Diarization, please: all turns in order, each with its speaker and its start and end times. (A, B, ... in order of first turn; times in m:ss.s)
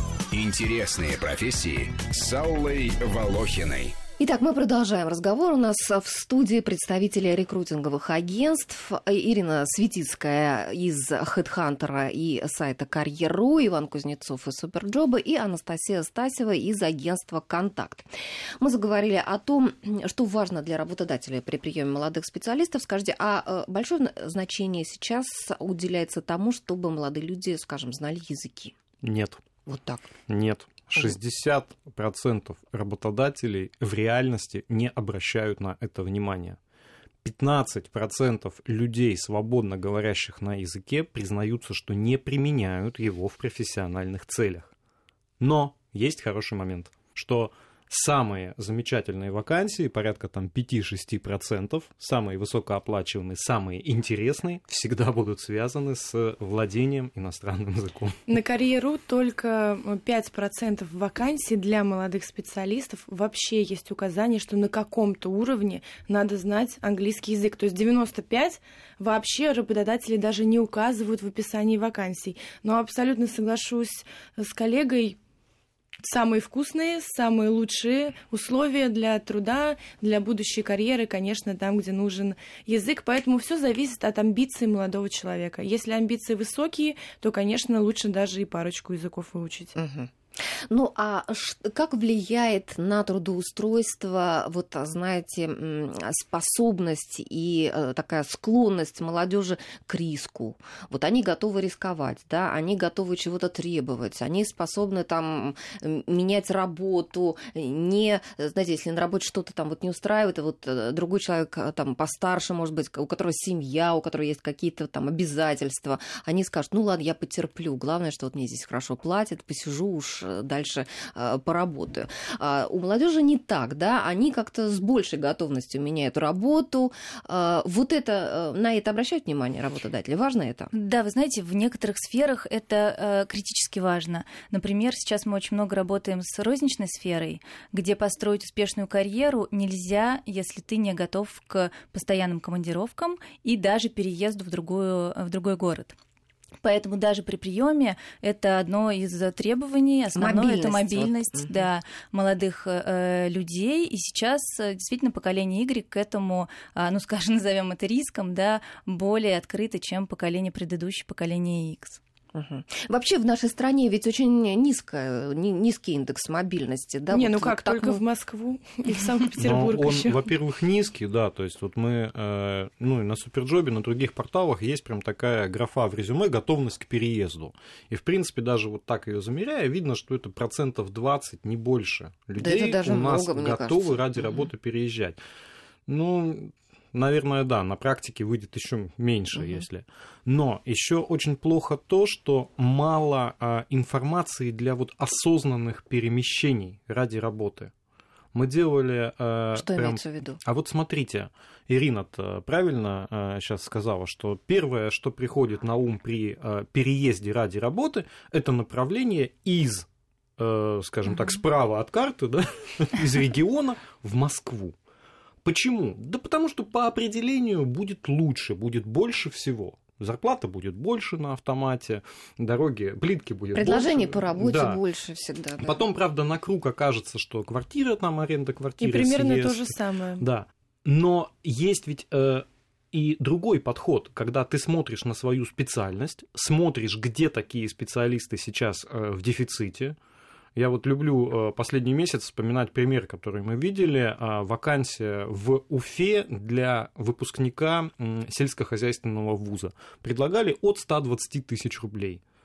0:00.3-0:04.0 A
0:04.2-0:18.1 B
0:18.6-0:28.7 B
0:29.0-0:29.4 C
0:29.7-0:30.1 B
0:30.3-0:36.6 C
0:37.2-0:44.7 C
0:45.4-0:58.1 C
0:58.3-1:15.2 D
1:16.0-1:29.7 D
1:29.8-1:30.1 B
1:30.7-2:10.7 B
2:10.7-2:25.9 E
2:26.6-2:42.0 E
2:30.2-2:31.7 B
2:42.3-2:48.0 B
2:47.1-2:50.3 D
2:49.4-3:05.2 C
3:02.4-3:04.5 B
3:05.9-3:17.7 C
3:09.3-3:09.6 B
3:18.3-3:29.8 C
3:19.5-3:20.4 B
3:30.4-3:34.7 C
3:35.4-3:44.8 C
3:43.5-3:45.8 B
3:45.6-4:00.0 C
3:48.8-3:50.2 D
4:00.6-4:12.2 C